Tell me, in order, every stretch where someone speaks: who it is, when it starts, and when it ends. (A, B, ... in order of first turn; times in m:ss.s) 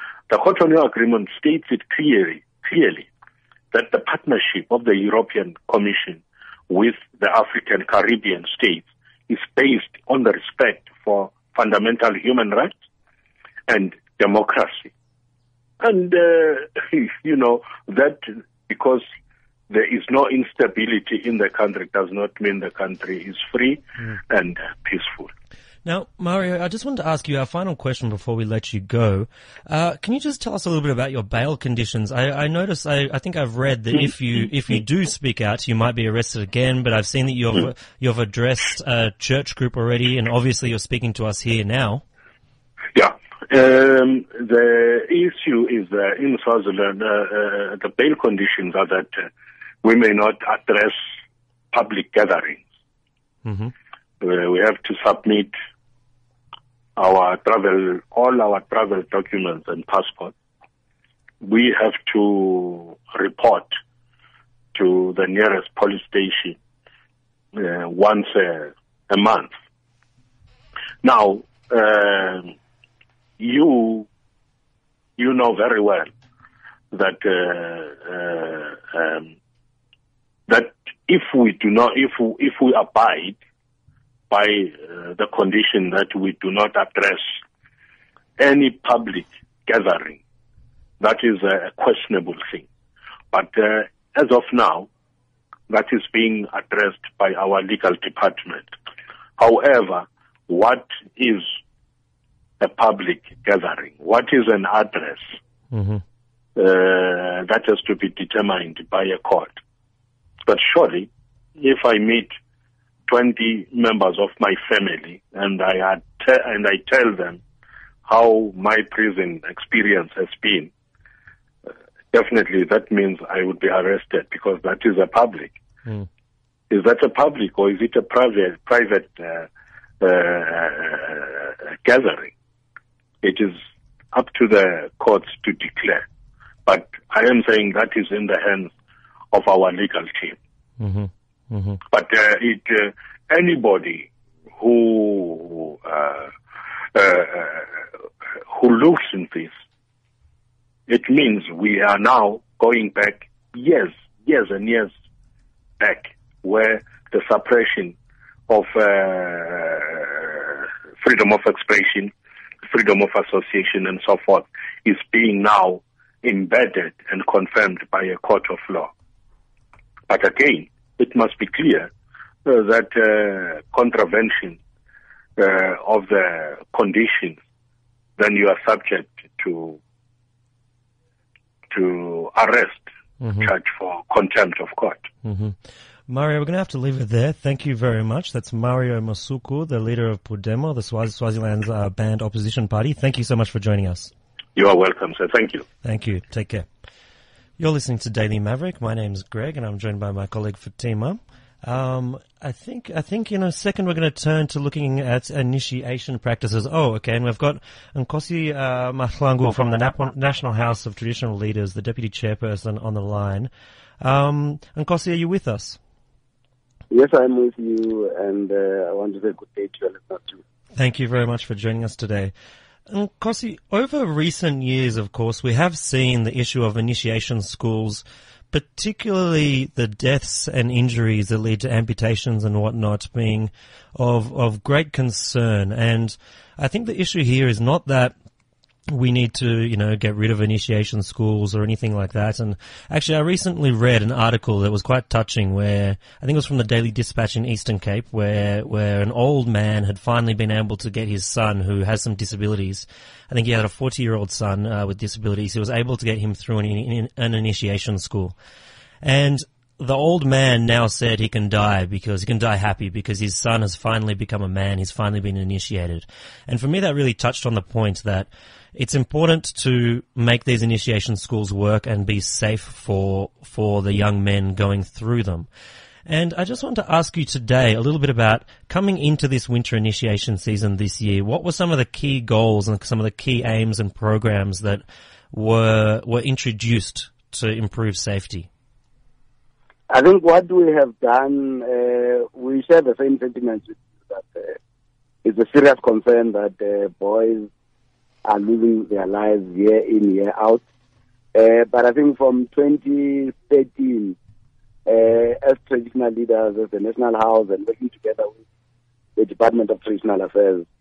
0:00.3-0:03.1 A
0:03.7-0:12.7 A
0:13.7-0:14.9 A
0:15.8-0:19.0 A
0:19.7-0:25.3 A
0:25.8-0:42.0 B
0:42.9-0:49.3 A
0:49.8-0:51.0 A
0:51.7-0:52.6 A
0:53.4-0:53.7 B
0:54.2-0:55.5 A
0:57.0-1:00.3 A
1:01.4-1:03.7 A
1:04.7-1:06.6 A
1:07.5-1:09.5 A
1:11.0-1:12.5 A
1:13.4-1:14.1 A
1:15.2-1:16.1 A
1:16.9-1:19.3 A
1:20.5-1:23.4 A
1:24.3-1:27.4 A
1:28.4-1:30.2 A
1:31.0-1:32.6 A
1:33.3-1:34.9 A
1:35.7-1:38.7 A
1:39.4-1:41.4 A
1:42.6-1:45.3 A
1:45.7-1:46.0 B
1:46.6-1:49.5 A
1:50.4-1:52.3 A
1:53.1-1:57.4 A
1:58.0-2:00.7 A
2:02.1-2:05.6 A
2:06.7-2:09.5 A
2:10.0-2:12.3 A
2:13.2-2:13.6 A
2:14.1-2:16.0 A
2:16.6-2:18.7 A
2:19.3-2:20.4 A
2:20.8-2:21.8 B
2:21.9-2:26.3 A
2:26.9-2:27.8 A
2:28.5-2:29.5 A
2:30.9-2:34.9 A
2:35.8-2:37.9 A
2:38.5-2:42.1 A
2:42.7-2:48.9 A
2:50.1-2:51.9 A
2:52.4-2:54.6 A
2:55.4-2:57.4 A
2:58.2-2:59.8 A
3:01.7-3:05.0 A
3:03.2-3:03.5 B
3:05.2-3:05.6 B
3:06.1-3:14.1 B
3:14.6-3:15.7 A
3:15.8-3:16.6 B
3:17.6-3:33.5 B
3:34.0-3:35.8 B
3:36.9-3:40.4 C
3:40.7-3:42.3 B
3:42.9-3:58.1 B
3:58.9-4:18.3 B
4:19.0-4:35.5 B
4:36.0-4:48.5 B
4:49.9-4:54.5 C
4:55.2-4:57.5 C
4:58.2-5:00.6 C
5:01.3-5:04.2 C
5:04.8-5:08.4 C
5:09.2-5:10.6 C